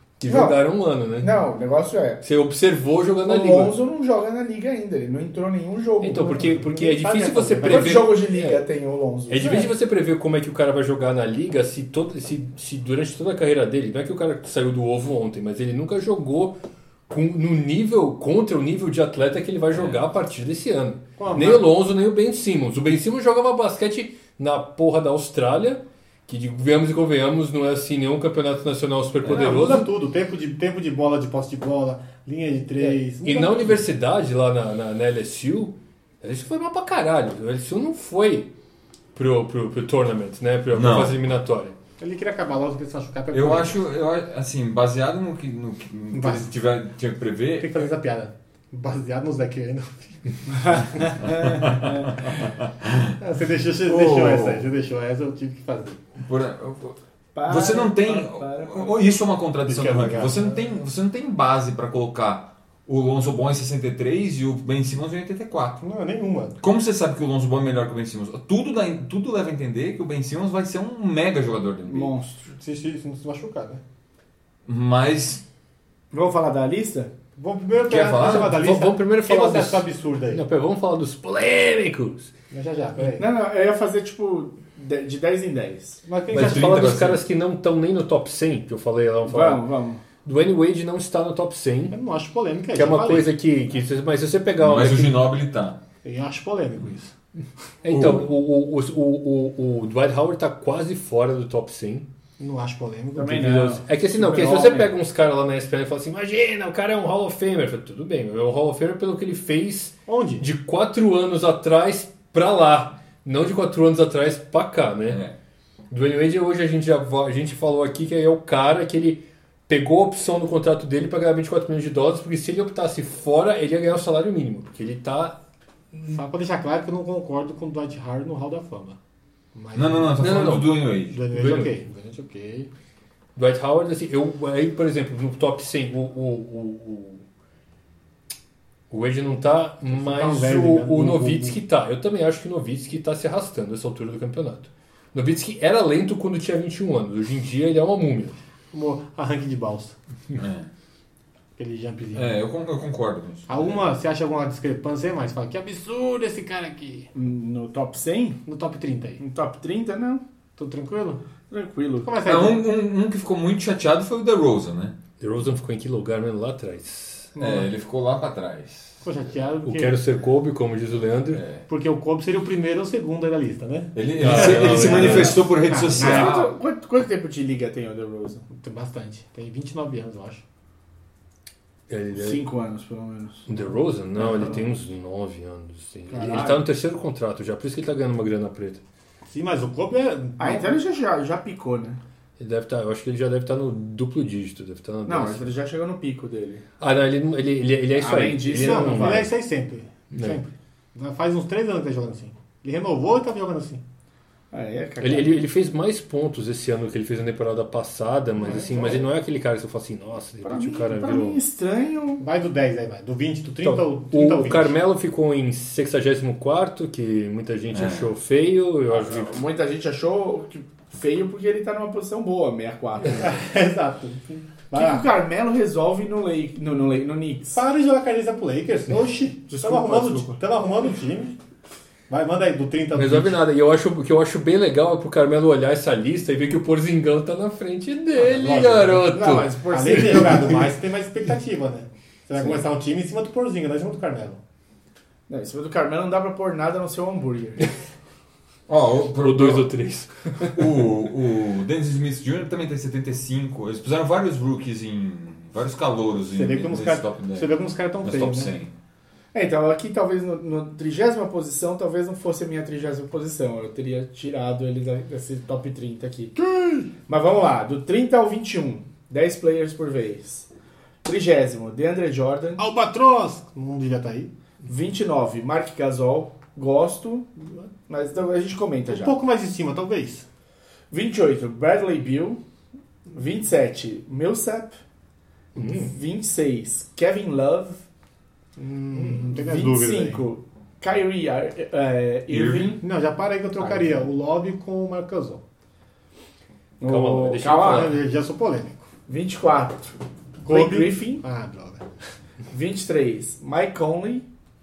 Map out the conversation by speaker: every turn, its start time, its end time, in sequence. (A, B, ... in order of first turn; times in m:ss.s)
0:00.2-0:01.4 A
0:00.3-0:00.6 B
0:01.2-0:02.2 B
0:02.2-0:03.8 A
0:03.2-0:06.7 B
0:06.0-0:08.6 A
0:06.7-0:08.1 C
0:07.6-0:09.5 B
0:09.3-0:29.9 A
0:09.4-0:09.7 C
0:19.7-0:20.0 D
0:21.2-0:21.7 C
0:29.2-0:29.6 D
0:29.3-0:33.9 C
0:32.8-0:38.5 A
0:39.2-0:41.8 A
0:40.7-0:41.2 D
0:42.0-0:43.8 C
0:43.3-0:47.9 D
0:46.1-0:46.5 C
0:47.6-0:50.9 C
0:50.5-0:52.1 B
0:51.4-0:53.1 D
0:53.1-0:56.0 C
0:53.8-0:54.7 D
0:56.2-1:05.8 D
0:57.3-0:58.9 B
0:59.6-1:00.6 C
1:05.8-1:06.6 C
1:06.6-1:12.1 D
1:11.9-1:12.5 B
1:12.5-1:13.8 C
1:14.7-1:15.4 D
1:16.1-1:17.1 B
1:17.4-1:20.4 C
1:17.9-1:18.6 D
1:18.2-1:22.3 A
1:22.5-1:23.3 C
1:23.2-1:26.0 B
1:26.1-1:26.8 C
1:26.3-1:27.2 D
1:26.3-1:29.7 A
1:29.3-1:30.0 B
1:30.2-1:32.0 A
1:31.9-1:33.3 C
1:32.8-1:35.2 A
1:34.6-1:35.8 D
1:36.0-1:37.1 C
1:37.8-1:42.1 A
1:37.9-1:38.3 D
1:42.4-1:43.7 C
1:43.2-1:45.0 B
1:43.4-1:55.2 A
1:50.1-1:50.4 C
1:55.1-1:55.4 D
1:55.9-2:05.4 A
2:05.9-2:06.2 A
2:06.1-2:09.0 C
2:09.6-2:12.7 C
2:09.8-2:11.2 D
2:10.2-2:10.7 A
2:11.3-2:11.7 A
2:13.4-2:17.2 A
2:18.9-2:28.4 A
2:19.9-2:21.6 C
2:28.7-2:30.0 C
2:30.4-2:30.7 D
2:31.6-2:32.4 C
2:32.2-2:33.9 D
2:33.5-2:37.1 C
2:37.1-2:38.4 B
2:38.5-2:39.2 C
2:39.2-2:40.2 B
2:40.6-2:41.2 C
2:41.5-2:42.1 B
2:42.0-2:42.6 C
2:42.2-2:45.0 D
2:45.2-2:47.3 A
2:47.4-2:47.7 C
2:47.4-2:49.0 D
2:49.0-2:50.0 C
2:49.6-2:51.4 A
2:51.3-2:51.6 D
2:51.7-2:56.4 C
2:54.0-2:56.5 D
2:54.2-2:55.4 A
2:54.8-2:55.3 B
2:55.9-2:58.5 B
2:58.5-3:00.4 C
3:01.9-3:02.4 A
3:02.1-3:03.6 B
3:03.5-3:08.8 A
3:04.2-3:04.6 C
3:04.2-3:04.6 B
3:06.1-3:06.6 B
3:09.3-3:10.7 C
3:10.4-3:12.0 B
3:12.4-3:15.5 A
3:15.1-3:16.6 B
3:16.8-3:19.3 A
3:17.9-3:19.3 B
3:18.5-3:23.8 C
3:20.1-3:20.4 A
3:24.5-3:25.4 B
3:25.0-3:31.4 A
3:28.4-3:29.0 B
3:30.4-3:32.2 B
3:32.2-3:34.8 C
3:33.6-3:39.4 A
3:37.7-3:38.1 D
3:38.9-3:43.4 B
3:43.2-3:45.1 C
3:44.7-3:47.6 B
3:47.5-3:51.4 C
3:49.5-3:50.4 B
3:52.1-3:53.4 C
3:53.0-4:00.6 A
3:58.2-3:59.0 C
3:58.9-4:00.7 B
3:59.7-4:04.4 C
4:05.3-4:07.7 B
4:08.7-4:09.7 D
4:09.2-4:10.6 A
4:10.5-4:17.5 D
4:16.3-4:18.5 C
4:18.0-4:18.7 D
4:19.3-4:26.3 B
4:26.4-4:26.9 C
4:27.1-4:30.5 B
4:31.0-4:32.6 B
4:32.6-4:34.3 C
4:34.6-4:37.3 B
4:37.9-4:39.2 B
4:38.9-4:40.3 C
4:40.9-4:42.4 B
4:43.1-4:44.8 B
4:45.6-4:47.8 B
4:45.6-4:45.8 C
4:48.6-4:50.3 C
4:48.9-4:52.8 B
4:52.3-4:52.8 D
4:52.8-4:55.4 C
4:53.6-4:54.0 B
4:56.8-4:57.9 B
4:56.8-4:58.0 A
4:57.6-4:58.9 C
4:59.1-5:00.0 B
5:00.4-5:01.8 C
5:00.5-5:01.2 B
5:02.5-5:04.3 B